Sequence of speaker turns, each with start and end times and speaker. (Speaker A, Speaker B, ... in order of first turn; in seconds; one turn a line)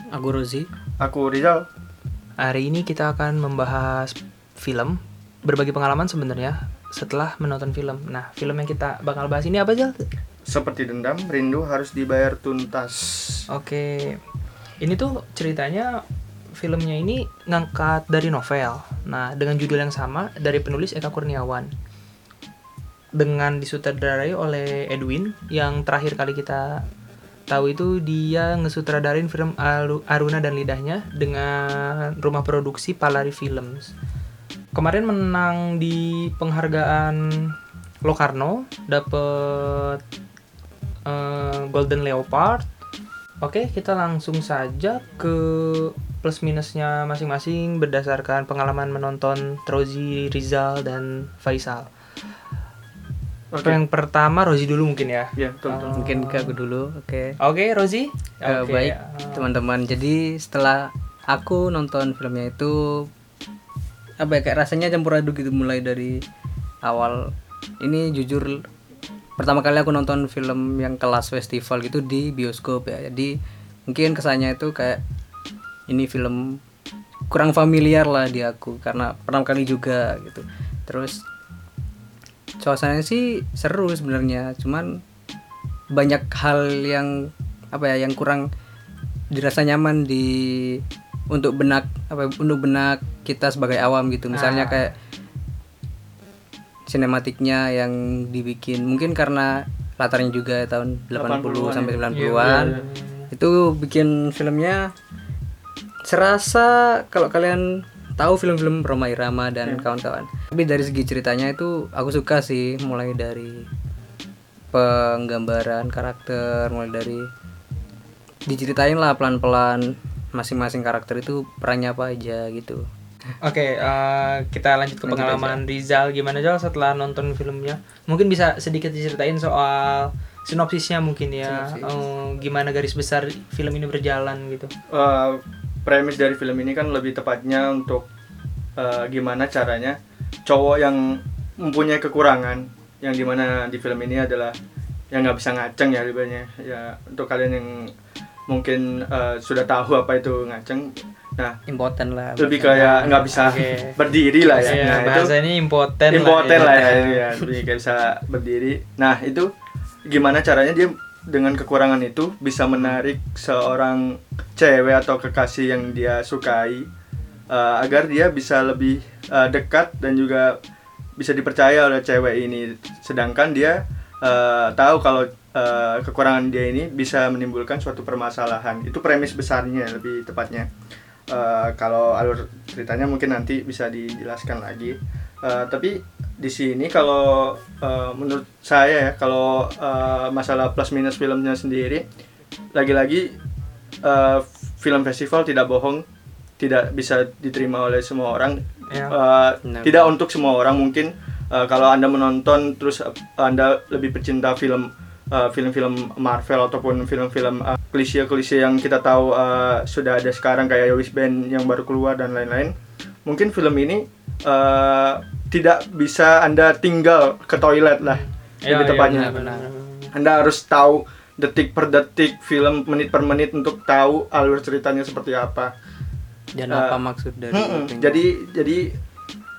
Speaker A: 0.1-0.7
Speaker B: 1.0-1.7
Speaker C: 2.4-10.1
Speaker B: 10.5-13.5
Speaker C: 13.5-14.2
Speaker C: 14.8-16.0
Speaker C: 16.6-21.7
Speaker C: 23.2-26.8
Speaker C: 27.5-33.9
Speaker C: 34.8-40.0
Speaker C: 41.1-42.7
Speaker C: 43.4-51.9
Speaker B: 53.5-53.8
Speaker C: 53.6-56.6
Speaker B: 55.4-56.1
Speaker A: 55.9-57.4
Speaker C: 57.4-59.5
Speaker A: 58.5-63.1
Speaker A: 64.2-66.2
Speaker A: 66.9-68.6
Speaker A: 69.4-73.3
Speaker A: 73.9-75.0
Speaker A: 75.9-76.6
Speaker A: 77.3-81.2
Speaker A: 82.6-85.0
Speaker A: 86.0-88.4
Speaker A: 89.3-94.9
Speaker C: 94.3-94.9
Speaker A: 96.9-102.7
Speaker B: 101.1-102.9
Speaker C: 102.1-103.3
Speaker A: 103.3-104.9
Speaker A: 106.1-113.7
Speaker A: 114.7-117.3
Speaker A: 118.5-122.8
Speaker C: 123.4-134.7
Speaker A: 125.0-125.6
Speaker A: 131.4-132.1
Speaker B: 134.9-138.1
Speaker B: 138.8-144.6
Speaker B: 145.1-147.9
Speaker B: 148.5-151.6
Speaker A: 151.7-153.6
Speaker B: 152.4-155.3
Speaker C: 153.0-154.0
Speaker A: 154.4-155.1
Speaker C: 154.6-157.2
Speaker B: 156.1-159.5
Speaker A: 156.6-157.1
Speaker B: 160.1-166.9
Speaker B: 167.5-170.6
Speaker B: 171.2-180.7
Speaker B: 181.3-192.0
Speaker B: 192.7-193.3
Speaker B: 194.0-196.0
Speaker B: 196.6-212.7
Speaker C: 198.9-199.2
Speaker A: 199.6-200.1
Speaker B: 213.3-219.5
Speaker C: 218.0-220.1
Speaker A: 219.1-219.7
Speaker B: 220.1-225.7
Speaker A: 226.6-228.2
Speaker B: 226.7-227.0
Speaker B: 227.5-228.8